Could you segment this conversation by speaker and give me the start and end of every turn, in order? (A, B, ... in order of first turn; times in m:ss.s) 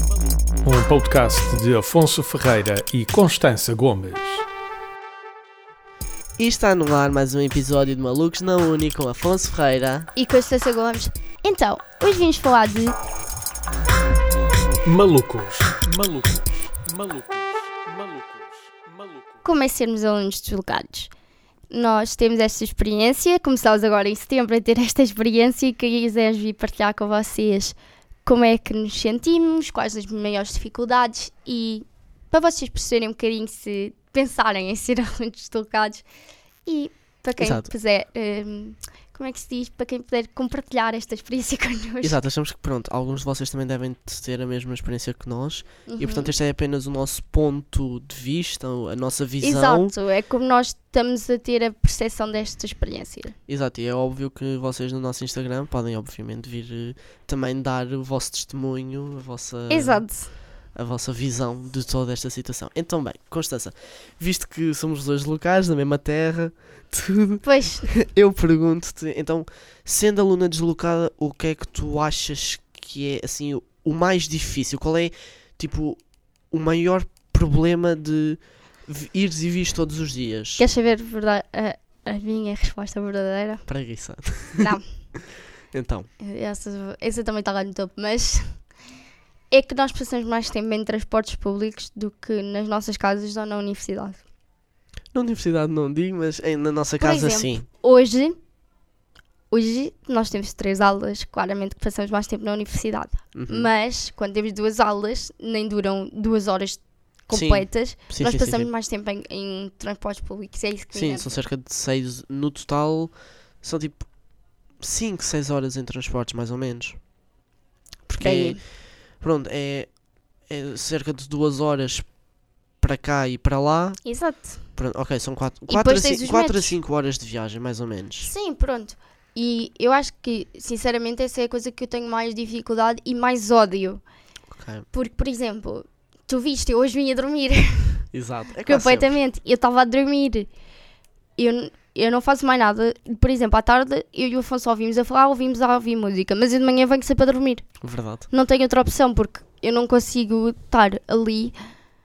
0:00.5-0:04.4 A
0:06.4-0:10.1 B
0:10.1-0:13.0 C
0:14.8-0:19.3 A
0:19.4-0:21.1 C
0:21.7-0:36.0 C
0:36.6-0:42.2 C
0:37.4-0:37.7 B
0:42.0-0:49.9 B
0:45.9-0:46.3 C
0:49.4-0:53.3 C
0:53.5-1:00.0 B
0:59.7-1:00.3 C
1:00.7-1:16.0 B
1:07.4-1:07.9 C
1:16.5-1:20.6 B
1:20.6-1:23.6 C
1:23.6-1:24.8 B
1:24.6-1:24.8 C
1:25.7-1:26.1 B
1:26.2-1:28.6 C
1:29.5-1:34.2 C
1:35.1-1:37.6 B
1:37.0-1:38.4 C
1:39.5-1:51.4 C
1:43.3-1:43.7 B
1:47.3-1:48.7 B
1:50.9-1:54.1 B
1:54.8-1:57.0 B
1:58.1-1:58.6 C
1:58.1-1:58.6 B
1:59.2-1:59.9 B
2:00.5-2:02.0 B
2:02.8-2:04.0 B
2:04.0-2:04.6 C
2:04.7-2:08.3 B
2:05.7-2:06.7 C
2:08.2-2:14.0 C
2:14.5-2:14.9 B
2:14.9-2:18.0 C
2:18.1-2:19.1 B
2:18.6-2:20.5 C
2:21.4-2:27.6 C
2:27.8-2:28.3 B
2:28.3-2:31.5 C